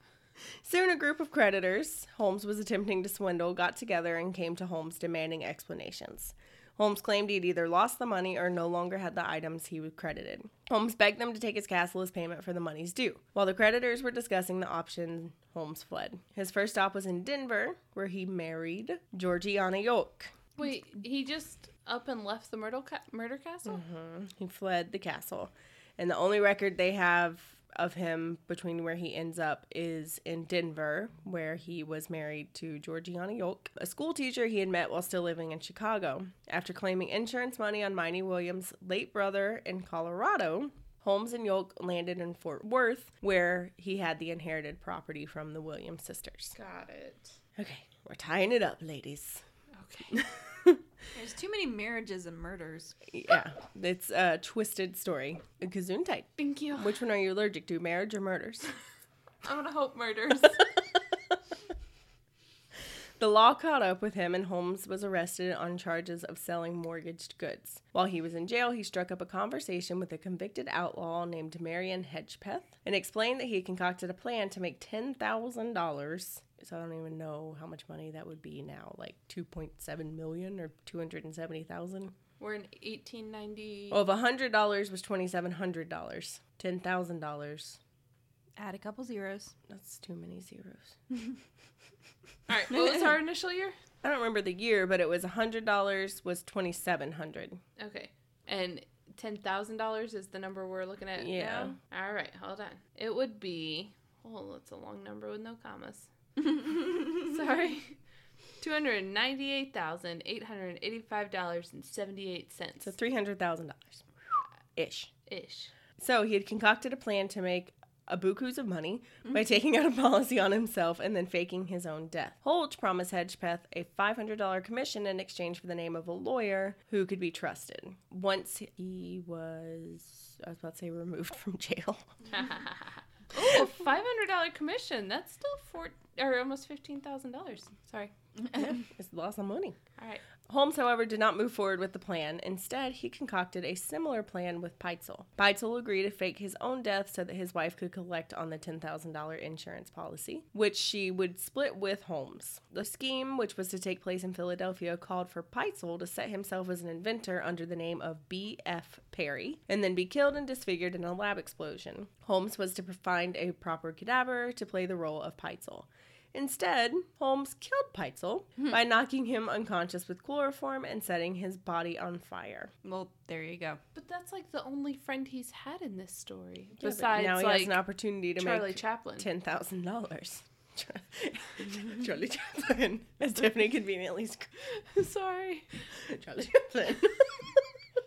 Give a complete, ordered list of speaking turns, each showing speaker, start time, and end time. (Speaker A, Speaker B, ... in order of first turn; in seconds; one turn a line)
Speaker A: 0.6-20.3
Speaker B: 20.6-23.8
Speaker A: 23.7-46.5
Speaker B: 46.6-47.4
Speaker A: 47.6-49.4
Speaker B: 49.7-50.2
Speaker A: 50.2-50.8
Speaker C: 51.1-53.0
Speaker A: 53.1-58.7
Speaker B: 56.4-57.0
Speaker B: 59.4-60.8
Speaker A: 63.2-82.1
Speaker B: 82.4-84.0
Speaker A: 83.9-87.8
Speaker C: 88.6-89.5
Speaker A: 89.7-91.0
Speaker B: 92.5-93.8
Speaker C: 92.7-93.1
Speaker A: 94.0-97.6
Speaker B: 97.8-108.0
Speaker A: 101.2-101.8
Speaker B: 108.6-112.9
Speaker A: 112.8-114.0
Speaker A: 114.8-115.1
Speaker B: 115.3-115.7
Speaker A: 116.0-132.1
Speaker B: 132.3-138.1
Speaker A: 138.5-139.8
Speaker B: 140.0-140.2
Speaker A: 140.5-172.7
Speaker C: 172.8-173.8
Speaker B: 173.9-177.8
Speaker A: 176.8-184.5
Speaker B: 178.4-179.3
Speaker B: 184.8-185.8
Speaker A: 185.9-187.5